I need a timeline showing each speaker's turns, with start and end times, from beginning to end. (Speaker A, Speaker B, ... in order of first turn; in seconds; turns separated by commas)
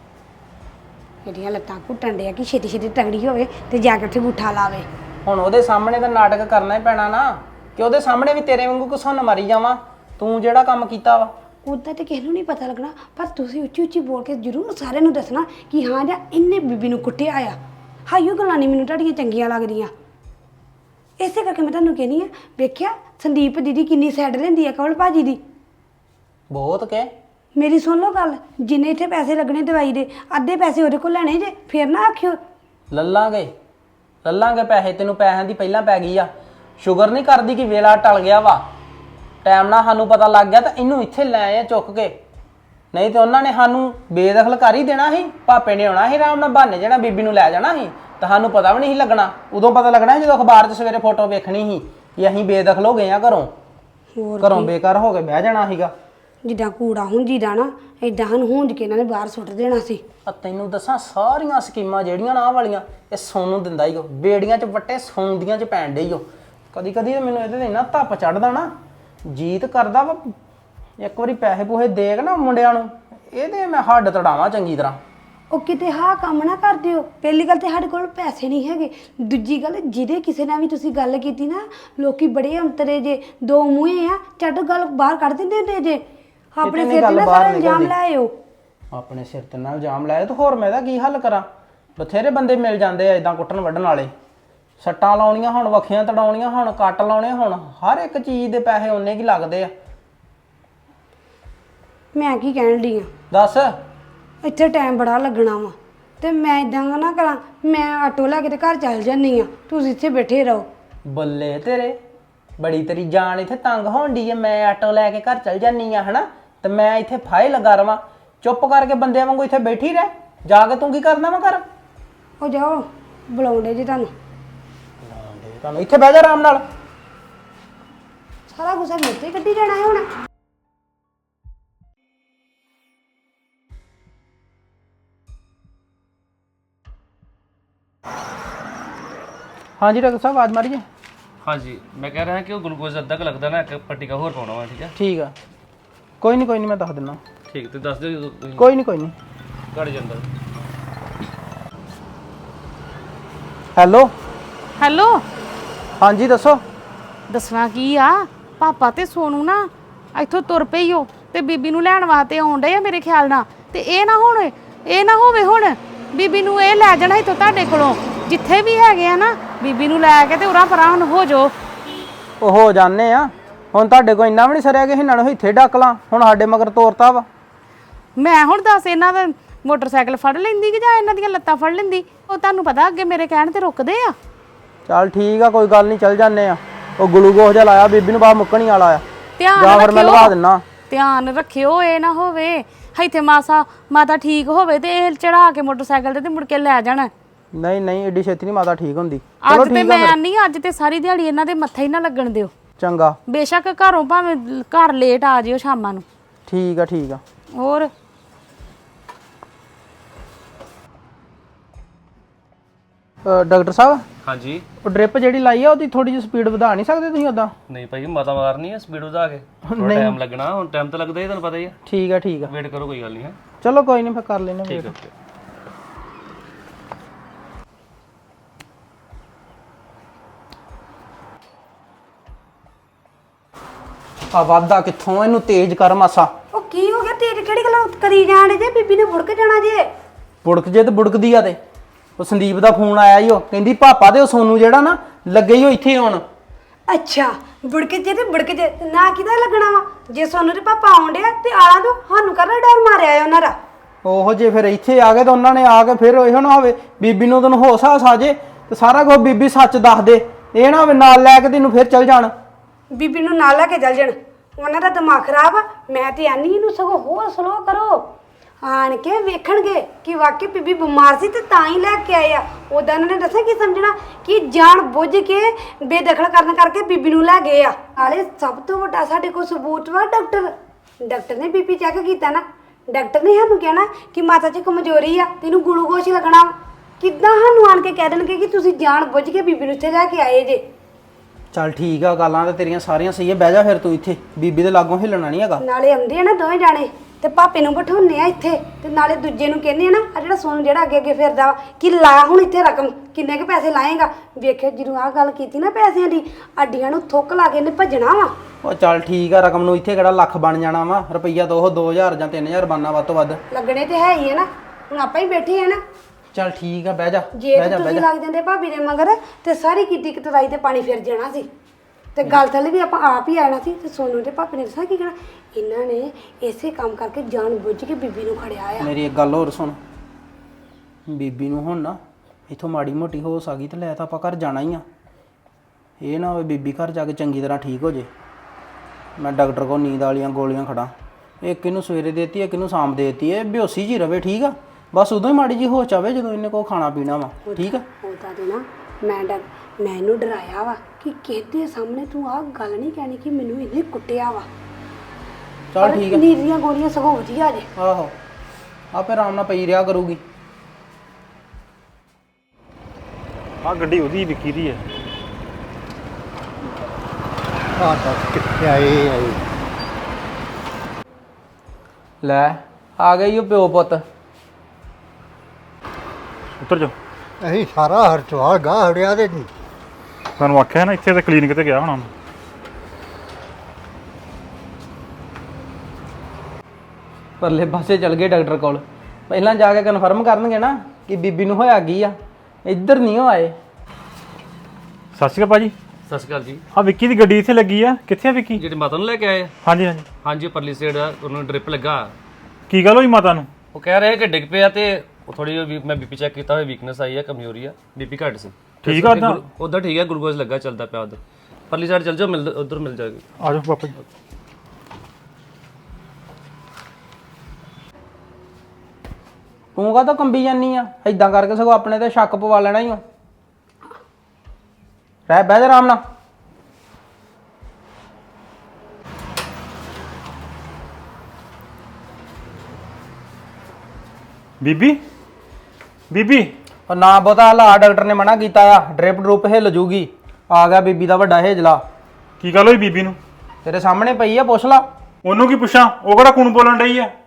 Speaker A: 1.2-4.9, Speaker B: 5.2-11.3, Speaker A: 11.6-17.6, Speaker A: 18.1-19.9, Speaker A: 21.2-25.4, Speaker B: 26.5-27.1, Speaker A: 27.6-32.4, Speaker B: 32.9-33.5, Speaker B: 34.2-38.6, Speaker B: 39.4-42.1, Speaker B: 42.9-53.5, Speaker A: 54.1-54.7, Speaker B: 54.4-55.9, Speaker A: 56.4-60.0, Speaker B: 60.2-68.7, Speaker B: 69.3-70.3, Speaker B: 71.0-75.0, Speaker A: 75.5-86.0, Speaker A: 86.5-88.3, Speaker B: 86.6-87.9, Speaker B: 88.9-94.1, Speaker B: 94.8-99.7, Speaker A: 102.1-103.1, Speaker B: 103.3-103.7, Speaker A: 104.4-110.7, Speaker B: 111.0-112.0, Speaker B: 112.6-121.6, Speaker A: 122.4-124.1, Speaker B: 125.6-126.6, Speaker A: 128.5-130.1, Speaker B: 139.8-140.8, Speaker C: 141.4-144.9, Speaker B: 144.9-145.3, Speaker B: 146.2-147.2, Speaker C: 147.5-148.7, Speaker B: 148.6-149.1, Speaker C: 149.7-150.2, Speaker B: 153.8-154.1, Speaker D: 154.8-155.2, Speaker B: 156.0-156.6, Speaker D: 157.3-171.5, Speaker B: 172.4-177.3, Speaker D: 178.2-184.2, Speaker B: 184.8-189.0, Speaker D: 189.4-190.3, Speaker B: 189.6-190.6, Speaker D: 190.9-197.1, Speaker B: 197.5-200.2, Speaker D: 199.4-202.5, Speaker B: 202.8-203.2, Speaker D: 203.3-206.1, Speaker B: 206.5-207.2, Speaker D: 207.6-207.9, Speaker B: 213.2-214.0, Speaker C: 214.2-214.6, Speaker B: 214.8-217.5, Speaker C: 217.7-221.8, Speaker B: 219.7-220.2, Speaker B: 221.8-222.5, Speaker C: 222.4-223.4, Speaker B: 223.6-224.9, Speaker C: 224.7-225.1, Speaker B: 234.3-236.3, Speaker A: 236.5-239.9, Speaker B: 240.4-241.6, Speaker B: 242.2-246.2, Speaker A: 246.9-253.6, Speaker B: 254.0-262.3, Speaker A: 262.9-268.1, Speaker A: 268.6-280.5, Speaker A: 281.1-290.6, Speaker B: 291.5-295.6, Speaker A: 295.6-308.3, Speaker B: 308.6-313.4, Speaker A: 313.5-315.8, Speaker B: 316.3-318.1, Speaker A: 317.4-321.5, Speaker A: 322.1-328.9, Speaker B: 328.8-329.8, Speaker B: 331.1-334.8, Speaker B: 336.0-338.1, Speaker B: 339.2-347.8, Speaker A: 347.4-354.5, Speaker B: 355.7-356.2, Speaker A: 355.8-357.7, Speaker B: 357.8-358.1, Speaker B: 358.9-360.2, Speaker E: 363.6-364.8, Speaker F: 367.8-369.4, Speaker B: 372.2-374.0, Speaker E: 376.6-376.9, Speaker F: 377.4-379.5, Speaker E: 380.4-382.1, Speaker B: 387.4-393.6, Speaker E: 395.1-395.7, Speaker C: 396.1-396.6, Speaker E: 396.7-398.6, Speaker C: 398.6-399.5, Speaker E: 399.6-400.0, Speaker C: 400.2-402.1, Speaker E: 402.7-403.5, Speaker C: 403.7-413.2, Speaker E: 408.8-409.4, Speaker E: 413.4-413.9, Speaker B: 419.8-423.0, Speaker B: 425.3-426.0, Speaker E: 434.6-435.0, Speaker E: 436.1-436.5, Speaker B: 436.9-441.8, Speaker E: 442.4-443.2, Speaker B: 443.6-444.8, Speaker E: 445.2-447.1